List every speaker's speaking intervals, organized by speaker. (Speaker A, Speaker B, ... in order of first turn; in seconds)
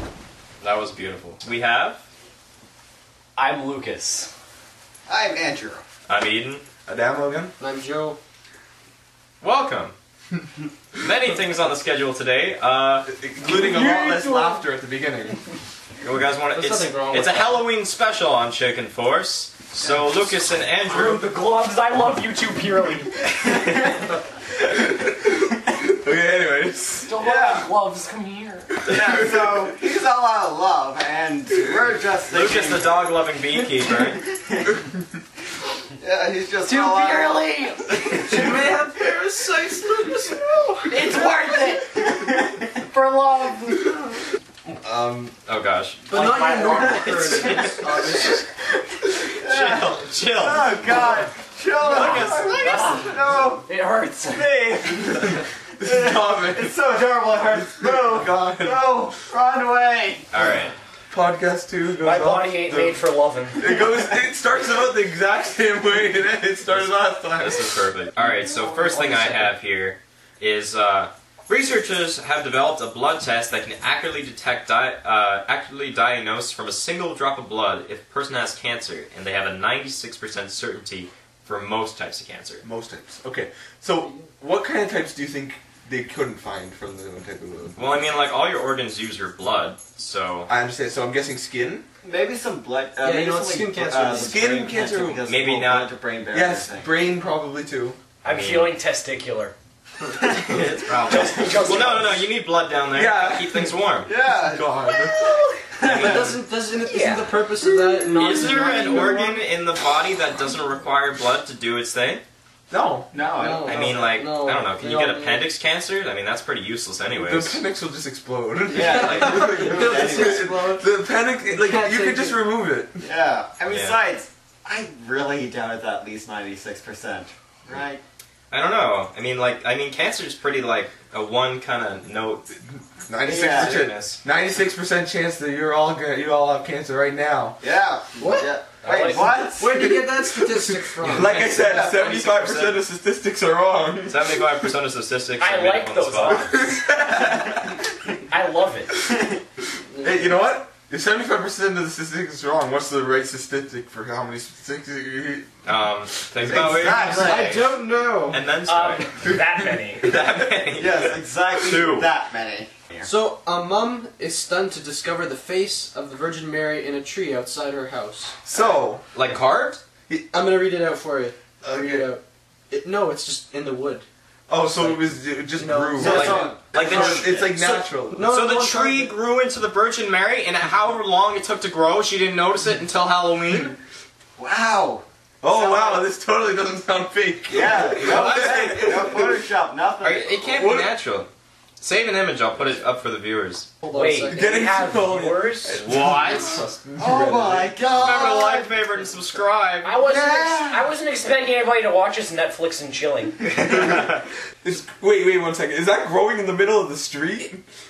Speaker A: 0.6-2.0, 6.1-6.6, 9.4-9.9, 10.9-13.1, 16.0-21.3, 32.3-34.2, 45.5-46.1, 47.2-47.8, 49.4-51.1, 51.8-53.0, 60.3-60.7, 67.4-82.6, 87.8-90.5, 95.3-95.9, 98.2-98.7, 100.3-104.1, 105.9-106.2, 108.1-112.2, 113.7-117.6, 118.8-119.4, 123.7-124.0, 128.5-132.5, 133.3-134.2, 141.0-142.8, 144.1-146.6, 155.7-157.8, 158.3-159.3, 160.0-162.1, 169.1-169.8, 176.0-183.8, 187.7-189.1, 190.0-191.3, 191.8-193.7, 195.8-196.7, 197.9-199.9
Speaker B: 3.4-4.3, 13.6-14.6, 20.9-23.8, 27.0-28.9, 36.7-38.5, 40.9-42.1, 46.1-47.8, 51.9-54.5, 62.0-63.7, 68.2-69.5, 98.2-99.5, 101.1-102.3, 106.8-107.3, 138.8-139.4, 145.4-146.9, 148.3-148.9, 158.7-160.1, 193.9-195.8, 199.8-203.4
Speaker C: 5.1-5.8, 27.2-27.7, 28.8-33.0, 33.9-34.9, 36.0-38.8, 40.9-44.0, 46.6-47.6, 49.4-53.6, 54.3-60.3, 92.0-96.9, 100.3-101.4, 104.0-106.4, 113.1-114.1, 118.7-120.5, 123.0-128.0, 133.2-133.8, 137.6-139.8, 141.2-142.2, 149.1-149.4, 156.4-157.6, 160.8-163.1, 176.0-177.5, 184.4-185.0, 185.6-186.1, 187.5-190.7, 197.0-198.8, 200.0-200.9, 203.5-204.0
Speaker D: 6.8-7.5, 13.0-15.4, 24.7-27.1, 28.9-29.7, 44.8-45.3, 55.0-56.7, 57.6-58.9, 61.1-63.0, 63.5-67.7, 82.6-87.9, 90.5-91.9, 94.1-95.2, 96.3-98.0, 102.9-105.3, 112.7-113.1, 117.1-123.0, 133.1-137.6, 139.7-144.5, 146.3-147.8, 150.0-155.5, 168.4-169.1, 171.6-172.1, 174.5-178.3, 185.4-189.4, 190.5-190.9, 194.3-197.7, 203.6-204.1, 204.6-207.6
Speaker E: 7.6-8.2, 16.5-17.7, 38.2-40.8, 46.1-48.5, 93.0-94.4, 105.9-109.5, 113.3-115.5, 118.8-120.9, 121.5-122.4, 138.2-138.5, 139.6-141.4, 149.9-150.3, 157.0-158.4, 163.0-168.4, 170.3-174.1, 174.7-176.5, 178.1-179.1, 193.8-194.6